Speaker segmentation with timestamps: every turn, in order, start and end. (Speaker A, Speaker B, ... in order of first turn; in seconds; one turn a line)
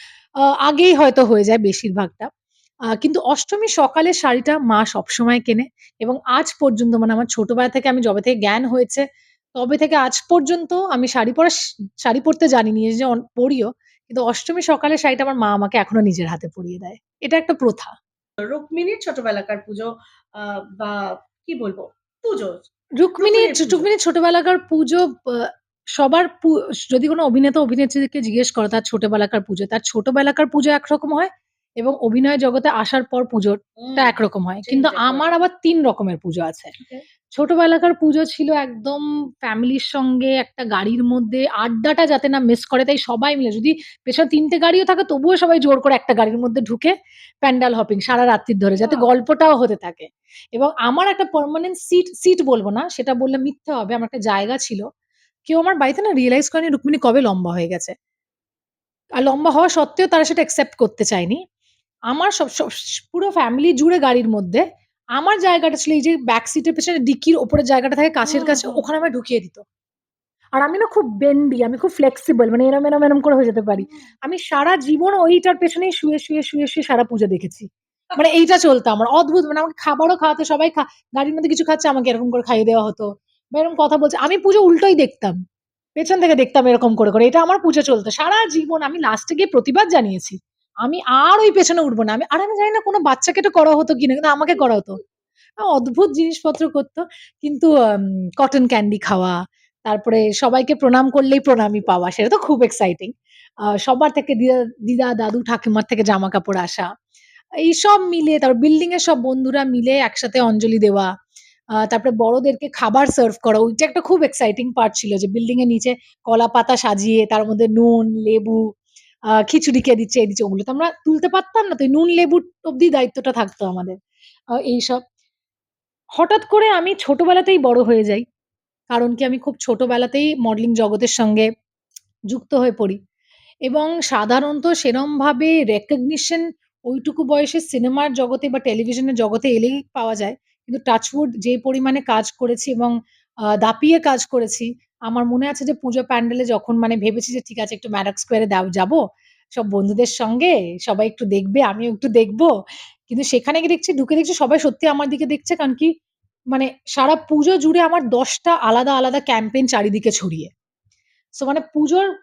Speaker A: 0.4-2.3
Speaker A: 3.0-9.0
Speaker A: 9.6-17.9
Speaker B: 18.4-22.6
Speaker A: 23.0-31.3
Speaker B: 23.2-23.9
Speaker A: 31.8-36.7
Speaker B: 33.8-35.3
Speaker A: 37.3-54.8
Speaker B: 48.7-49.1
Speaker A: 55.5-57.9
Speaker A: 59.2-61.4
Speaker A: 62.1-64.6
Speaker A: 65.2-69.6
Speaker B: 68.2-68.8
Speaker A: 70.5-85.4
Speaker A: 86.0-95.0
Speaker A: 95.6-99.3
Speaker A: 99.9-103.1
Speaker A: 103.8-106.8
Speaker A: 107.6-111.1
Speaker A: 111.8-118.6
Speaker A: 119.3-124.0
Speaker A: 124.6-125.0
Speaker A: 126.2-128.2
Speaker A: 128.9-131.4
Speaker A: 132.3-133.0
Speaker A: 133.7-142.9
Speaker A: 143.6-149.0
Speaker A: 149.6-152.5
Speaker A: 153.1-155.9
Speaker A: 156.5-160.5
Speaker A: 161.4-162.1